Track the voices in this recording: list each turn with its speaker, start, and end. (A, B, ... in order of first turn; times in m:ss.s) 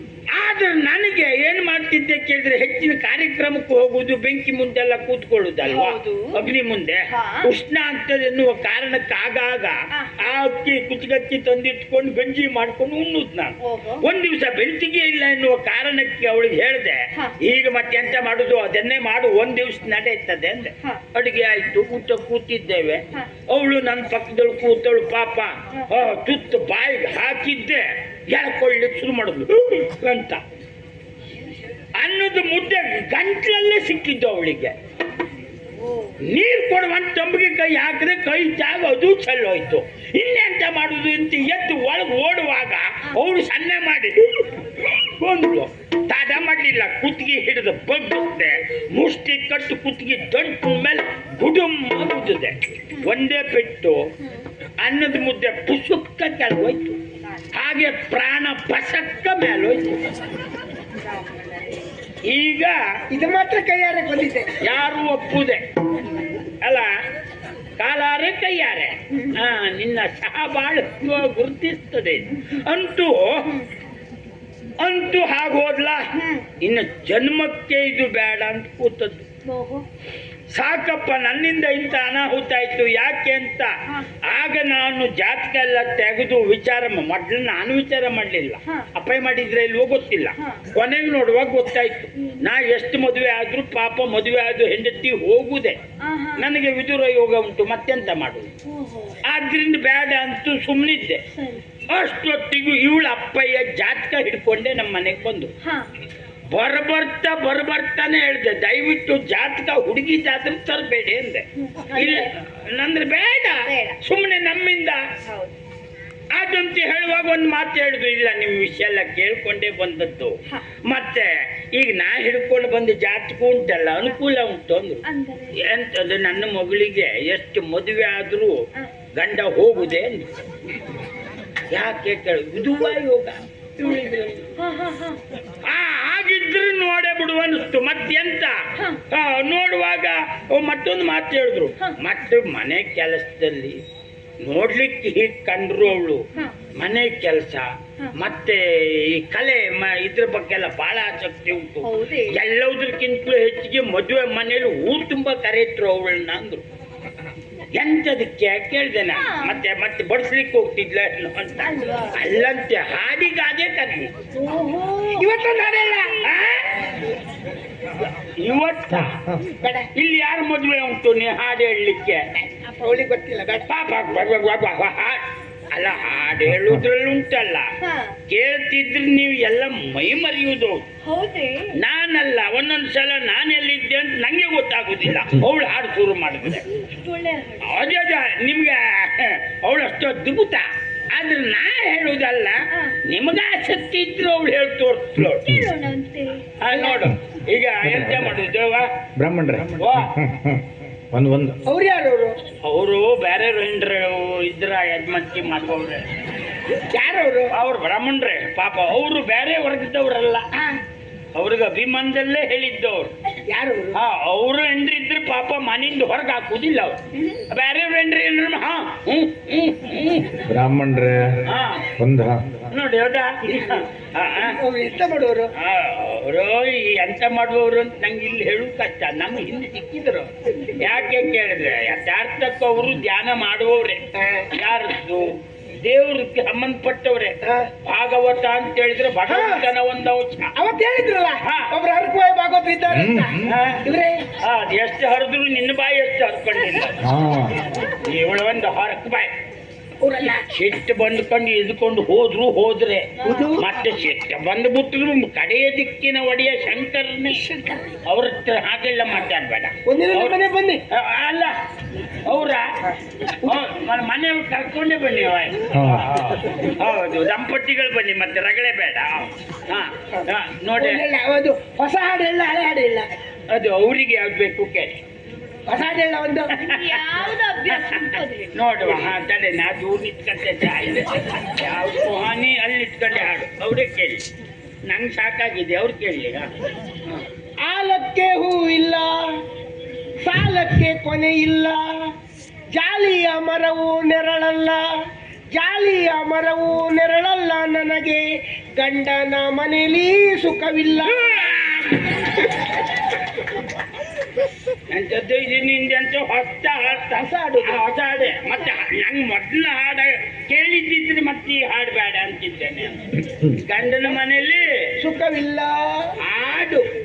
0:00.3-0:30.4 A
0:05.6-0:06.4 B
0:07.1-0:07.5 B
0:13.6-0:14.0 B
0:32.0-0:34.7 A
0:35.8-0:36.2 B
0:36.2-0:54.0 A
0:54.8-0:57.0 A
0:57.5-1:00.0 A
1:01.0-1:01.8 B
1:02.3-1:02.8 A
1:03.1-1:04.6 C
1:04.6-1:05.6 A
1:06.6-1:06.9 A
1:07.8-1:13.4 A
1:09.1-1:09.4 B
1:14.8-1:16.1 A
1:16.1-1:16.5 B
1:16.6-1:19.3 A
1:19.4-1:19.8 B
1:20.5-1:23.7 A
1:24.2-1:35.8 A
1:30.4-1:30.6 B
1:36.0-1:36.4 B
1:36.4-1:38.5 A
1:38.6-1:39.2 B
1:39.2-1:41.2 A
1:41.3-1:41.6 B
1:41.9-1:45.5 A
1:46.5-1:51.4 A
1:51.6-1:52.3 B
1:51.9-1:55.0 A
1:53.6-1:54.0 B
1:55.2-1:55.5 B
1:56.3-2:05.0 A
2:05.0-2:05.6 B
2:05.6-2:08.6 A
2:09.2-2:10.3 A
2:11.7-2:14.5 A
2:14.6-2:15.2 B
2:15.6-2:23.8 A
2:18.8-2:19.0 B
2:24.4-2:26.2 A
2:26.8-2:36.6 A
2:31.8-2:32.4 B
2:37.8-2:44.1 A
2:39.1-2:39.6 B
2:41.6-2:42.2 B
2:44.4-2:45.3 B
2:45.1-2:46.2 C
2:45.8-2:46.2 B
2:46.2-2:46.7 A
2:48.4-2:49.2 A
2:49.6-2:49.9 C
2:50.0-2:52.2 A
2:52.5-2:53.7 C
2:53.7-2:57.7 A
2:57.8-2:58.2 B
2:58.3-3:00.8 A
3:01.0-3:01.7 B
3:01.8-3:06.6 A
3:06.7-3:07.8 B
3:07.6-3:15.5 A
3:15.4-3:16.9 B
3:16.6-3:19.0 A
3:16.7-3:17.0 C
3:17.8-3:18.3 D
3:19.2-3:21.6 D
3:19.8-3:20.1 A
3:21.7-3:22.3 C
3:22.6-3:26.0 A
3:26.9-3:27.5 C
3:27.5-3:30.4 A
3:31.4-3:33.1 A
3:33.5-3:34.0 C
3:33.9-3:40.4 A
3:40.4-3:42.6 D
3:41.5-3:41.9 A
3:42.7-3:44.6 A
3:44.4-3:45.5 C
3:45.6-4:00.5 A
3:54.2-3:54.5 C
3:57.4-3:57.7 C
3:59.3-3:59.6 C
4:00.6-4:04.2 C
4:01.4-4:01.7 A
4:03.0-4:03.3 D
4:03.4-4:03.8 A
4:04.4-4:06.9 A
4:06.6-4:06.9 B
4:07.0-4:07.6 D
4:08.0-4:09.3 A
4:10.0-4:10.3 C
4:10.2-4:17.4 A
4:13.2-4:13.6 B
4:13.2-4:13.7 C
4:17.3-4:18.0 C
4:18.1-4:20.4 A
4:19.8-4:20.8 C
4:20.9-4:21.6 A
4:22.2-4:22.7 A
4:22.9-4:23.6 C
4:23.4-4:31.0 A
4:25.7-4:26.4 D
4:30.8-4:33.1 C
4:33.5-4:35.0 A
4:35.7-4:36.5 C
4:36.6-4:38.5 B
4:36.6-4:37.0 A
4:37.7-4:38.0 A
4:38.5-4:44.2 A
4:44.9-4:46.5 A
4:47.6-4:49.4 C
4:50.2-4:52.1 C
4:52.7-4:54.9 C
4:55.5-4:58.3 C
4:58.8-5:01.5 C
5:01.0-5:02.5 A
5:04.9-5:14.9 A
5:07.1-5:07.8 C
5:15.0-5:16.1 C
5:16.2-5:16.8 A